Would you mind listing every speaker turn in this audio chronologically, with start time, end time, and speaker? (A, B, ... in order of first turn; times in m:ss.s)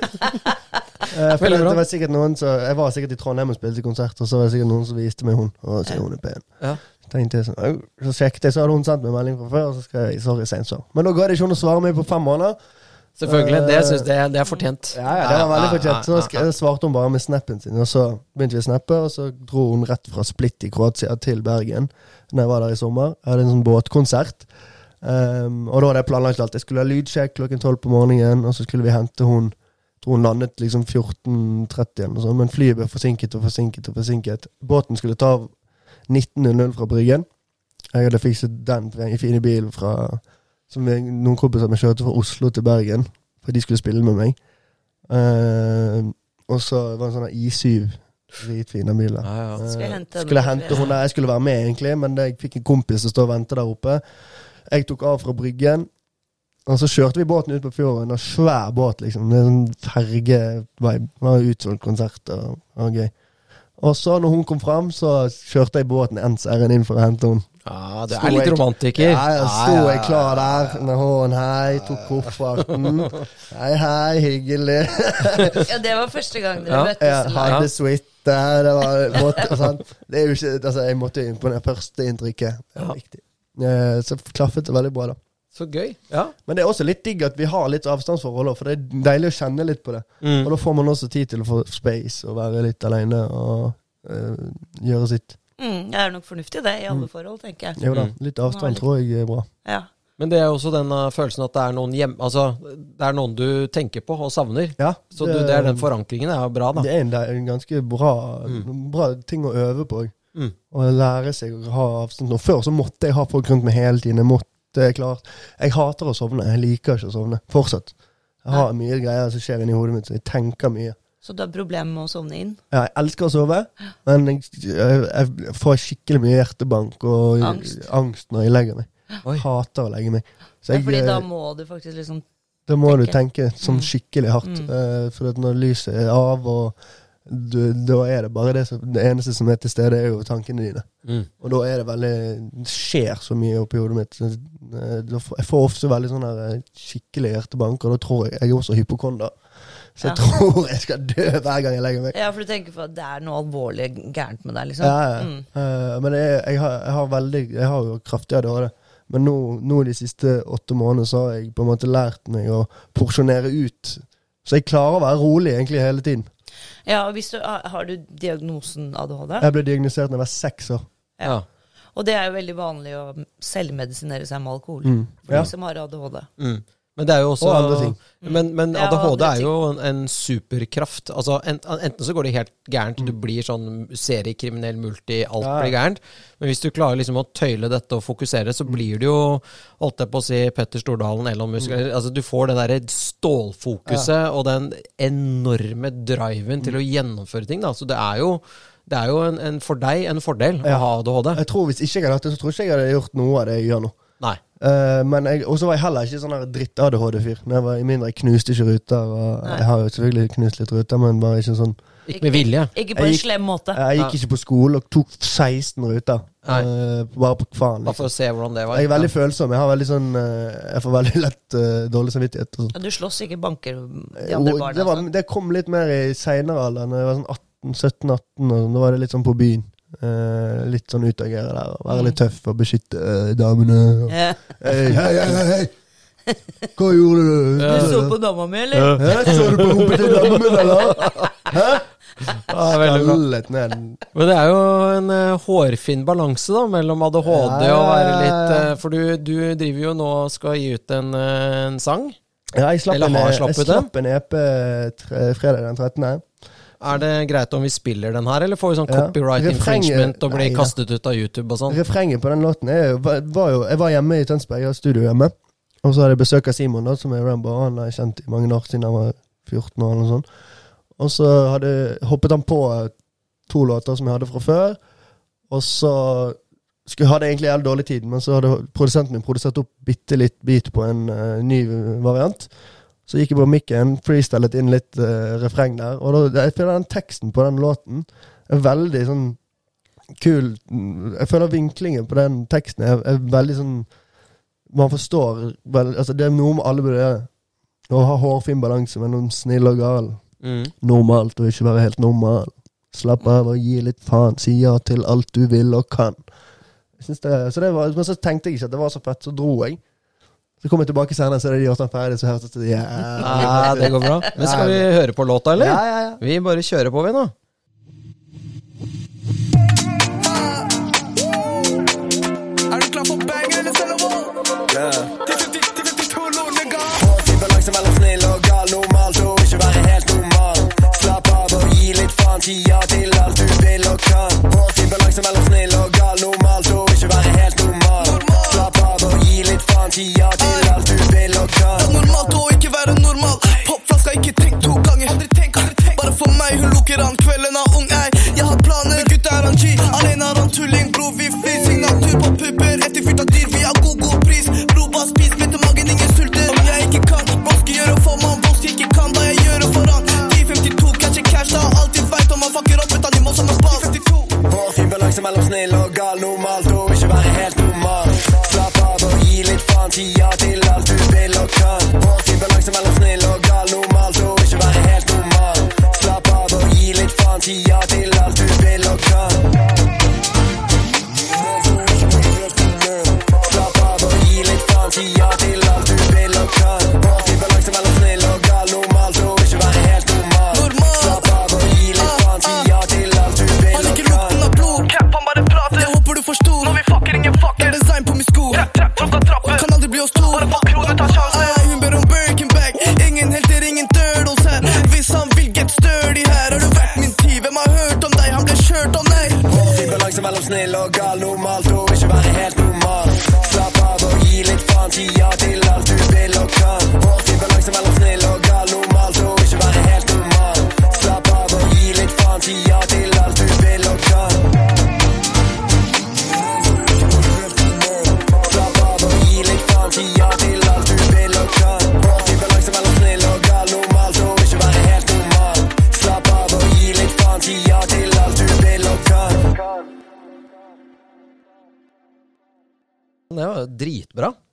0:01.1-0:06.4 A
0:01.4-0:01.8 B
0:07.0-0:12.6 A
0:13.2-0:16.4 B
0:13.2-0:14.1 A
0:14.9-0:24.5 A
0:25.0-0:35.5 A
0:36.1-0:37.3 A
0:37.9-0:44.4 A
0:45.1-0:54.0 A
0:49.2-0:49.6 B
0:49.6-0:50.9 C
0:54.7-0:55.9 A
0:56.6-1:03.1 A
1:03.8-1:07.5 A
1:07.6-1:10.8 B
1:08.1-1:15.7 A
1:11.9-1:13.2 B
1:15.5-1:17.6 C
1:16.7-1:17.7 B
1:17.0-1:25.2 A
1:25.5-1:26.3 B
1:26.4-1:35.4 A
1:30.2-1:30.5 B
1:35.6-1:37.9 C
1:37.8-1:39.5 A
1:38.5-1:38.8 C
1:40.2-1:46.9 B
1:44.8-1:45.9 A
1:46.7-1:50.1 A
1:50.7-1:57.9 A
1:58.4-2:01.0 A
2:01.2-2:02.6 C
2:02.7-2:11.2 A
2:07.4-2:07.8 C
2:10.7-2:12.2 C
2:12.7-2:16.7 A
2:12.8-2:13.9 C
2:14.4-2:14.7 C
2:17.2-2:20.9 A
2:21.4-2:29.3 A
2:30.0-2:32.1 A
2:32.1-2:35.4 C
2:34.8-2:46.3 A
2:46.8-2:49.5 C
2:49.4-2:50.8 A
2:51.9-2:56.3 C
2:54.8-2:55.5 A
2:56.4-3:21.4 B
2:57.4-2:58.0 A
2:58.2-2:59.5 C
3:05.4-3:05.7 A
3:20.6-3:24.0 A
3:24.6-3:31.8 A
3:32.1-3:32.7 B
3:32.1-3:33.8 C
3:32.9-3:38.1 A
3:37.8-3:39.1 B
3:38.7-3:42.7 A
3:42.7-3:45.0 C
3:44.2-3:55.7 A
3:51.9-3:52.2 C
3:54.1-3:54.6 C
3:56.8-3:58.1 A
3:57.6-3:58.0 B
3:57.7-3:59.6 C
3:58.7-4:01.3 B
3:59.0-4:01.8 A
4:02.4-4:03.2 B
4:02.6-4:04.0 A
4:04.1-4:12.2 B
4:07.2-4:08.7 A
4:12.5-4:16.2 A
4:12.9-4:13.9 B
4:16.8-4:21.8 B
4:18.9-4:20.7 A
4:21.7-4:30.2 A
4:31.0-4:32.9 A
4:33.5-4:34.8 A
4:35.5-4:42.5 A
4:43.1-4:49.4 A
4:50.2-4:53.9 A
4:54.7-4:57.3 A
4:57.9-5:00.2 A
5:00.4-5:00.7 B
5:00.8-5:06.2 A
5:07.0-5:09.8 A
5:10.6-5:14.9 A
5:13.2-5:17.3 B
5:13.3-5:14.2 C
5:15.5-5:16.2 A
5:22.7-5:24.4 D
5:24.7-5:25.2 E
5:25.3-5:27.0 D
5:26.9-5:42.3 E
5:38.0-5:38.7 D
5:40.4-5:40.7 D
5:41.7-6:04.4 D
6:04.5-6:19.5 E
6:21.4-6:34.5 E
6:30.5-6:31.2 D
6:32.0-6:32.7 D
6:33.7-6:49.5 D
6:49.4-7:04.5 E
7:07.1-7:19.8 E
7:23.3-7:24.4 B